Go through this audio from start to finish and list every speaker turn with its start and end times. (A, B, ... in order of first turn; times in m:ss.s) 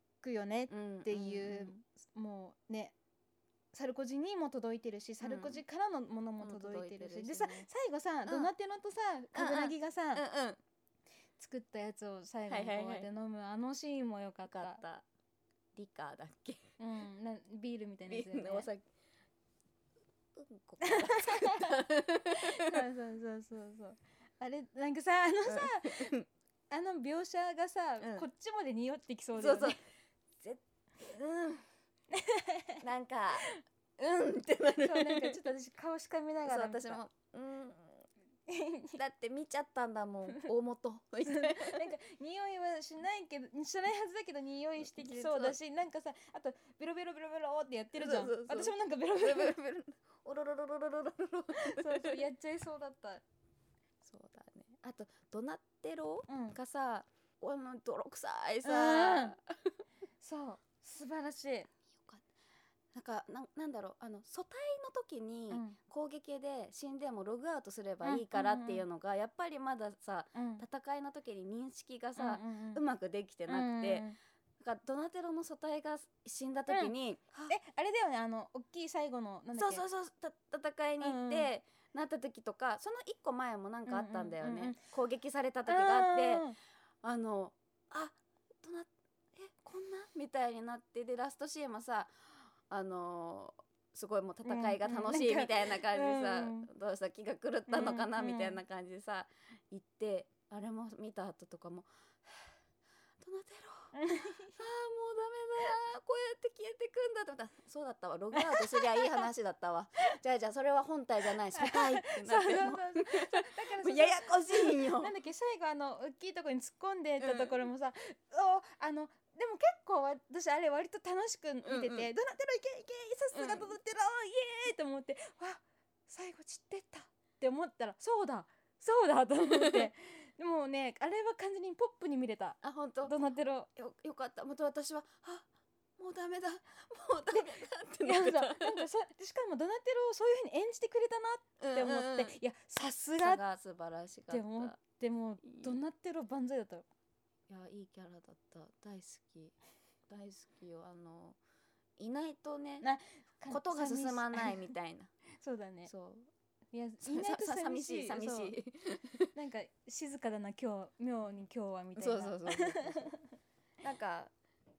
0:00.2-0:02.9 A
0:00.7-0:01.8 B
0:03.7-0:10.2 A
0:05.2-0:05.6 B
0:06.4-0:07.7 B
0:08.3-0:08.5 B
0:09.3-0:10.6 B
0:11.4-0:14.8 A
0:12.5-0:13.1 B
0:14.5-0:15.0 B
0:15.8-0:16.6 B
0:16.8-0:18.7 A
0:18.1-0:18.8 B
0:20.4-0:22.8 B
0:20.8-0:21.8 A
0:22.3-0:26.2 A
0:25.5-0:26.3 B
0:26.7-0:29.8 A
0:28.0-0:28.3 B
0:29.4-0:29.8 B
0:30.4-0:31.6 B
0:32.1-0:32.8 A
0:32.8-0:35.4 B
0:34.8-0:37.0 A
0:36.5-0:38.1 B
0:38.5-0:39.0 A
0:39.0-0:41.8 B
0:41.2-0:49.6 A
0:44.8-0:45.6 B
0:48.0-0:52.2 B
0:51.5-0:53.2 A
0:54.0-0:59.8 B
0:56.3-0:56.6 A
0:58.6-0:59.4 A
1:00.2-1:01.7 A
1:01.9-1:02.2 B
1:02.9-1:14.1 B
1:05.5-1:05.8 A
1:08.0-1:08.8 A
1:10.4-1:10.6 A
1:12.2-1:12.8 A
1:13.5-1:14.2 A
1:14.6-1:17.6 B
1:17.5-1:19.8 A
1:19.6-1:26.5 B
1:21.0-1:21.5 A
1:23.9-1:24.8 A
1:25.7-1:26.6 A
1:27.0-1:42.5 B
1:34.4-1:36.7 A
1:37.7-1:38.6 A
1:43.2-1:44.0 B
1:43.9-1:44.5 A
1:44.5-1:55.1 B
1:48.4-1:49.3 A
1:51.5-2:13.7 A
1:57.2-1:57.6 B
2:01.6-2:02.1 B
2:03.3-2:03.8 B
2:09.5-2:09.9 B
2:12.6-2:13.2 B
2:13.8-2:15.5 B
2:16.0-2:18.9 B
2:17.3-2:23.4 A
2:21.6-2:22.4 B
2:23.2-2:24.8 B
2:24.3-2:26.8 A
2:25.5-2:25.8 B
2:27.5-2:29.6 B
2:30.1-2:31.4 B
2:32.0-2:32.9 B
2:32.8-2:34.7 A
2:33.5-2:35.1 B
2:35.4-2:35.9 A
2:35.9-2:36.3 B
2:36.7-2:38.6 A
2:37.0-2:39.3 B
2:39.3-2:43.2 A
2:42.0-2:43.1 B
2:43.8-2:44.3 B